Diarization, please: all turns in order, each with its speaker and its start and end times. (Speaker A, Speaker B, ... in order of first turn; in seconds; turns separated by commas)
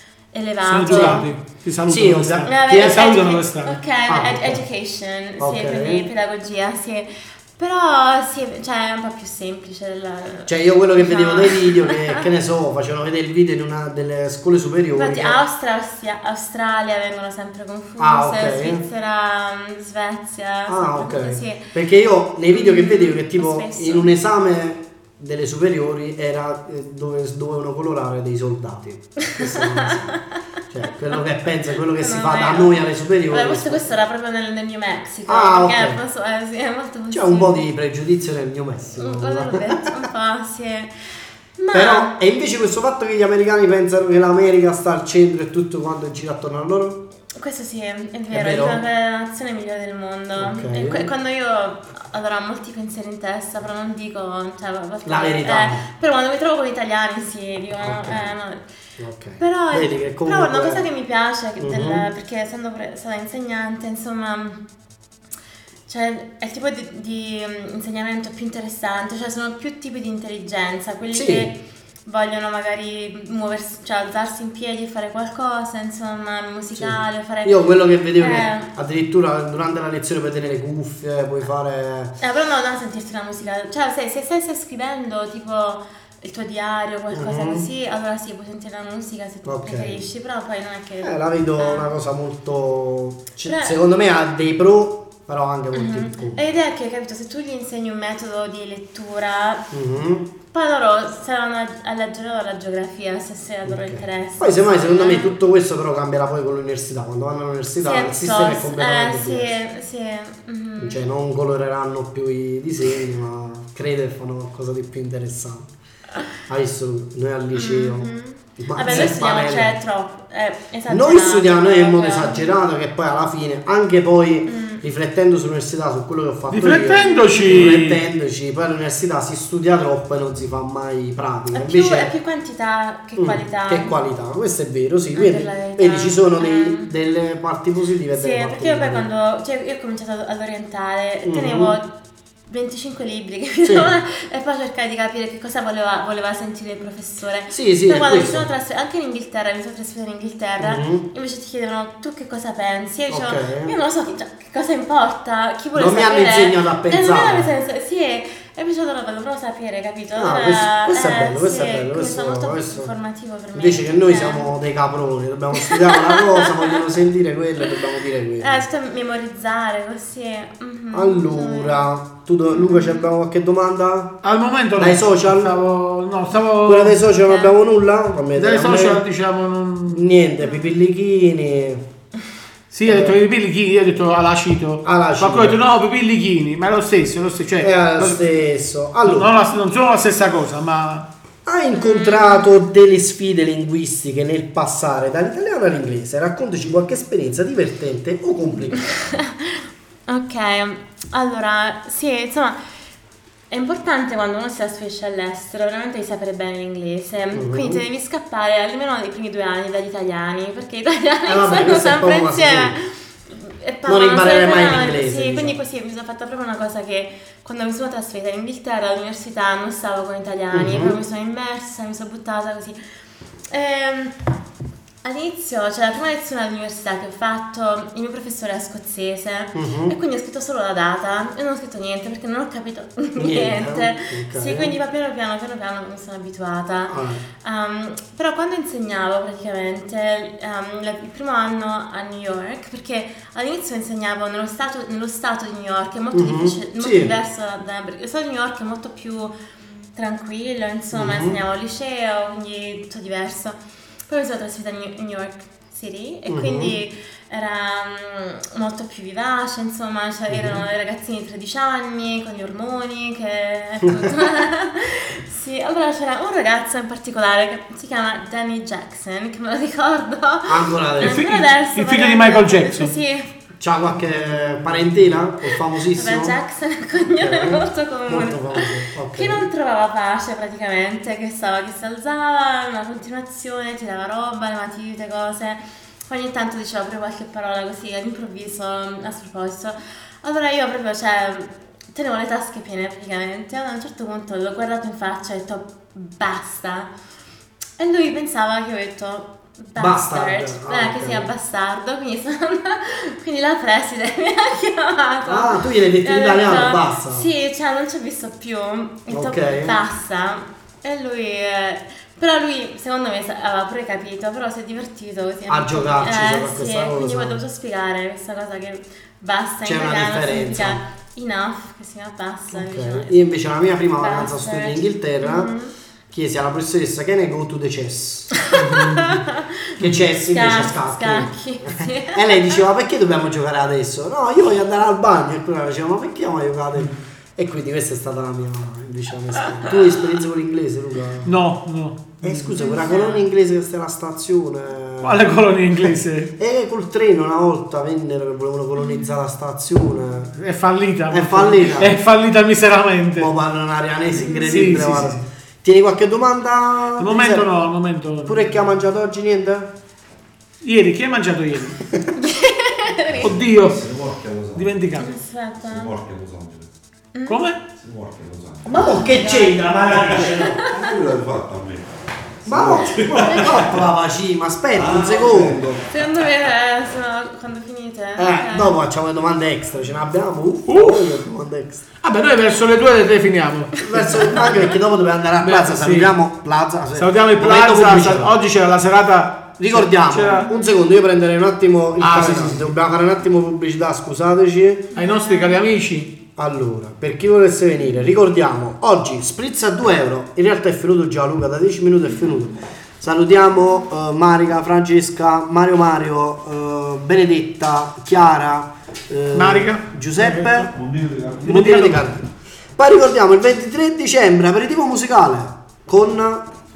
Speaker A: 0.3-1.2, Speaker B: 0.7-3.8, Speaker C: 0.9-1.2, Speaker C: 1.9-3.1, Speaker A: 2.4-12.2, Speaker C: 4.1-4.6, Speaker C: 5.4-6.0, Speaker C: 10.4-15.4, Speaker A: 14.9-21.7, Speaker C: 18.0-18.8, Speaker C: 20.7-33.9, Speaker A: 22.5-24.2, Speaker A: 29.3-30.2, Speaker A: 32.0-37.6, Speaker C: 35.3-36.0, Speaker C: 37.1-39.9, Speaker A: 39.0-40.9, Speaker A: 41.6-42.1, Speaker C: 41.7-47.0, Speaker A: 47.3-58.6, Speaker C: 48.3-48.8, Speaker C: 50.4-51.1, Speaker C: 55.0-55.8, Speaker C: 57.8-58.3, Speaker C: 59.0-60.9, Speaker A: 59.4-64.6, Speaker C: 61.6-62.0, Speaker A: 65.9-78.7, Speaker C: 71.1-71.5, Speaker C: 76.7-82.2, Speaker A: 82.2-91.9, Speaker C: 87.1-87.7, Speaker C: 89.4-90.0, Speaker C: 91.0-96.4, Speaker A: 93.4-93.8, Speaker A: 95.7-99.7, Speaker C: 99.7-100.3, Speaker A: 100.5-105.3, Speaker C: 103.6-109.6, Speaker A: 107.8-111.0, Speaker C: 110.8-115.7, Speaker C: 116.5-119.8, Speaker A: 117.5-122.5, Speaker C: 120.9-132.1, Speaker A: 124.5-124.8, Speaker B: 126.5-128.0, Speaker A: 126.9-127.6, Speaker A: 131.5-133.9, Speaker C: 133.2-139.1, Speaker A: 135.1-136.9, Speaker A: 138.1-141.9, Speaker C: 141.2-141.8, Speaker A: 142.5-164.5, Speaker C: 143.6-143.9, Speaker C: 147.5-148.5, Speaker C: 150.6-151.1, Speaker C: 153.1-153.7, Speaker C: 155.7-157.5, Speaker C: 160.1-162.9, Speaker C: 163.5-168.6, Speaker A: 165.6-166.8, Speaker A: 168.4-171.8, Speaker C: 170.9-174.2, Speaker A: 172.5-173.1, Speaker B: 174.2-177.0, Speaker C: 174.8-175.5, Speaker C: 176.6-179.0, Speaker A: 177.2-177.5, Speaker B: 178.3-180.1, Speaker C: 179.9-181.8, Speaker B: 182.7-188.2, Speaker C: 182.8-183.2, Speaker C: 184.8-185.6, Speaker C: 187.6-189.3, Speaker B: 189.0-191.1, Speaker C: 191.4-198.9, Speaker A: 191.7-192.6, Speaker A: 198.9-202.6, Speaker A: 203.5-222.8, Speaker C: 207.3-207.8, Speaker C: 211.3-212.8, Speaker C: 213.8-215.6, Speaker C: 220.5-221.0, Speaker A: 223.5-224.1, Speaker A: 225.0-249.3, Speaker C: 229.5-229.9, Speaker C: 233.2-234.7, Speaker C: 236.9-237.2, Speaker C: 246.1-247.1, Speaker A: 249.9-253.6, Speaker C: 250.9-251.4, Speaker A: 254.1-273.3, Speaker C: 256.3-256.7, Speaker C: 260.3-260.6, Speaker C: 263.8-264.1, Speaker C: 270.5-271.2, Speaker B: 271.0-272.9, Speaker C: 273.6-276.4, Speaker A: 275.8-296.9, Speaker C: 277.2-279.5, Speaker A: 297.8-323.2, Speaker C: 299.8-301.3, Speaker C: 305.2-307.3, Speaker C: 309.1-309.8, Speaker C: 315.5-317.4, Speaker C: 319.6-320.8, Speaker C: 322.5-325.5, Speaker A: 324.0-325.7, Speaker C: 326.1-329.2, Speaker A: 328.6-329.7, Speaker C: 329.8-341.4, Speaker A: 330.3-332.6, Speaker B: 341.2-342.6, Speaker C: 342.2-345.2, Speaker A: 342.6-343.2, Speaker B: 345.0-346.3, Speaker C: 346.4-350.3, Speaker A: 348.8-349.1, Speaker B: 350.4-353.3, Speaker C: 351.1-352.0, Speaker C: 353.2-357.4, Speaker A: 354.2-354.5, Speaker B: 354.4-355.2, Speaker B: 357.0-358.5, Speaker C: 358.2-359.7, Speaker B: 360.6-361.8, Speaker A: 362.1-363.2, Speaker D: 363.0-364.7, Speaker B: 363.2-363.8, Speaker B: 364.5-365.1, Speaker A: 365.0-365.9, Speaker D: 365.6-366.7, Speaker A: 367.1-367.4, Speaker B: 367.3-367.6, Speaker D: 367.8-373.9, Speaker C: 368.6-370.6, Speaker A: 368.7-369.5, Speaker A: 370.4-370.9, Speaker C: 372.4-375.8, Speaker D: 374.8-376.2, Speaker A: 375.9-378.8, Speaker C: 378.2-381.8, Speaker B: 380.7-381.2, Speaker B: 382.0-384.6, Speaker C: 383.8-388.3, Speaker B: 385.4-386.1, Speaker B: 386.9-390.5, Speaker C: 389.6-394.9, Speaker B: 392.0-392.7, Speaker B: 394.9-396.1, Speaker A: 394.9-395.6, Speaker C: 396.4-410.7, Speaker B: 409.3-410.7, Speaker D: 410.7-411.7, Speaker B: 411.4-412.0, Speaker C: 411.4-412.2, Speaker C: 412.8-416.5